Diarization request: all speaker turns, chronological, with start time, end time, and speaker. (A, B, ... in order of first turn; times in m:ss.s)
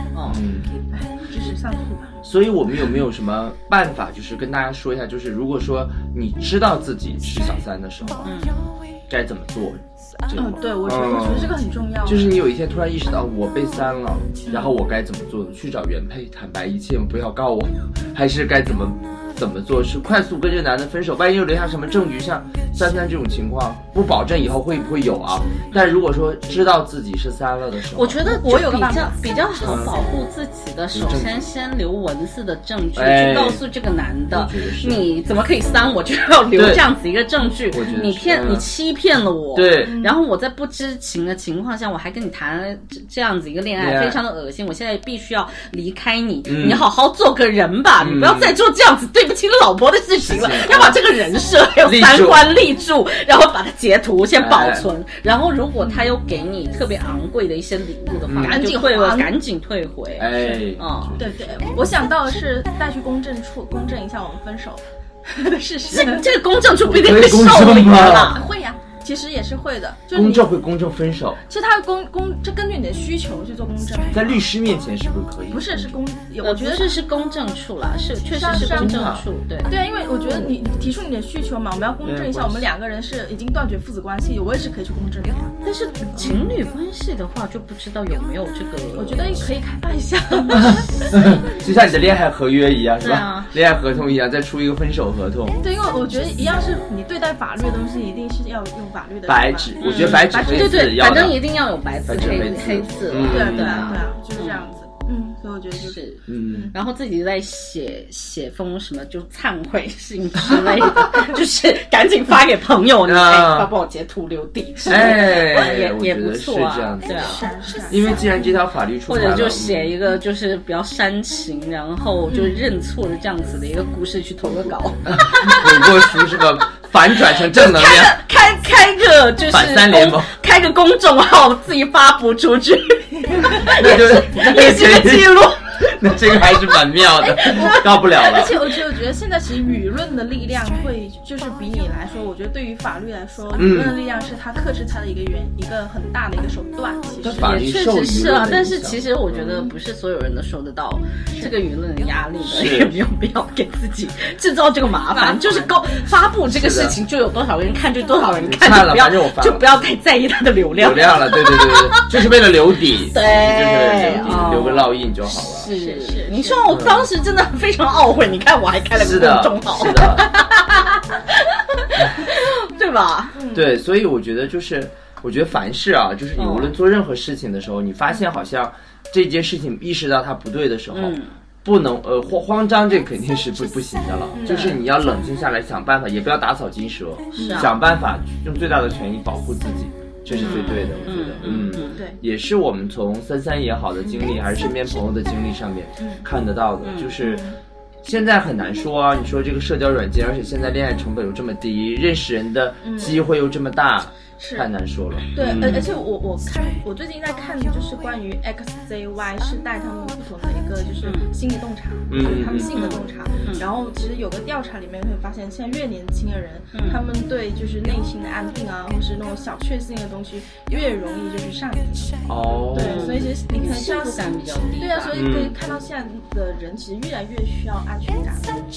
0:00.1-0:00.4 A
0:00.3-0:00.8 B
0:00.9-0:02.2 C
0:02.2-0:08.3 B
0:08.2-0:08.6 A
0:09.1-0:28.2 B
0:10.4-0:12.3 C
0:14.5-0:14.8 C
0:25.7-0:26.0 A
0:28.0-1:01.2 A
0:28.2-0:29.2 C
0:29.6-0:30.0 B
0:30.9-0:31.5 B
0:33.0-0:33.6 B
0:34.3-0:35.0 B
0:36.5-0:36.8 B
0:37.7-0:38.7 B
0:39.6-0:40.0 B
0:39.8-0:40.2 C
0:43.8-0:44.2 B
0:46.5-0:46.9 B
0:48.0-0:48.6 B
0:50.2-0:51.0 B
0:51.8-0:52.5 B
0:54.4-0:54.9 B
0:55.8-0:56.1 C
0:58.3-0:58.6 B
0:58.4-0:59.4 C
1:00.2-1:01.7 B
1:01.2-1:06.3 C
1:05.9-1:08.4 A
1:06.8-1:08.4 B
1:07.6-1:10.6 C
1:10.1-1:11.4 B
1:11.5-1:14.4 C
1:14.1-1:16.0 B
1:15.5-1:17.0 C
1:16.4-1:19.7 A
1:18.3-1:25.6 C
1:18.5-1:19.3 B
1:22.0-1:22.7 B
1:25.6-1:29.5 A
1:26.2-1:26.5 B
1:29.0-1:31.4 C
1:30.4-1:31.3 A
1:30.5-1:35.6 B
1:33.0-1:33.5 A
1:35.6-1:40.9 C
1:39.3-1:41.4 B
1:39.8-1:44.7 A
1:42.1-1:44.0 B
1:43.3-1:46.8 C
1:45.7-1:57.5 A
1:46.3-1:46.7 B
1:53.1-1:53.7 B
1:54.9-1:59.9 B
1:57.1-1:58.6 C
1:59.1-2:06.4 A
2:02.3-2:02.6 C
2:04.4-2:08.2 B
2:07.1-2:16.8 A
2:09.5-2:10.3 B
2:13.5-2:18.6 B
2:17.3-2:27.5 C
2:17.4-2:17.8 A
2:23.6-2:24.0 B
2:27.2-2:29.7 B
2:27.3-2:42.2 A
2:32.4-2:33.0 B
2:35.0-2:36.0 C
2:36.5-2:37.0 B
2:38.4-2:39.7 B
2:40.7-2:45.7 B
2:43.0-2:53.4 A
2:44.1-2:44.7 C
2:45.6-2:46.7 C
2:46.7-2:47.1 B
2:48.9-2:50.3 B
2:53.4-2:53.7 C
2:53.5-3:17.4 B
2:56.4-2:56.8 A
3:00.9-3:01.4 A
3:04.3-3:04.8 C
3:07.4-3:07.7 A
3:07.4-3:07.8 C
3:10.3-3:12.2 C
3:10.3-3:12.0 A
3:16.0-3:16.3 C
3:16.8-3:17.2 A
3:17.2-3:17.6 C
3:18.0-3:25.9 B
3:22.8-3:23.2 C
3:24.4-3:24.7 C
3:25.3-3:48.5 C
3:25.5-3:25.9 A
3:31.0-3:31.3 A
3:32.1-3:32.8 B
3:32.7-3:33.7 A
3:36.7-3:37.0 A
3:42.2-3:43.2 B
3:42.8-3:45.2 A
3:45.1-3:45.6 B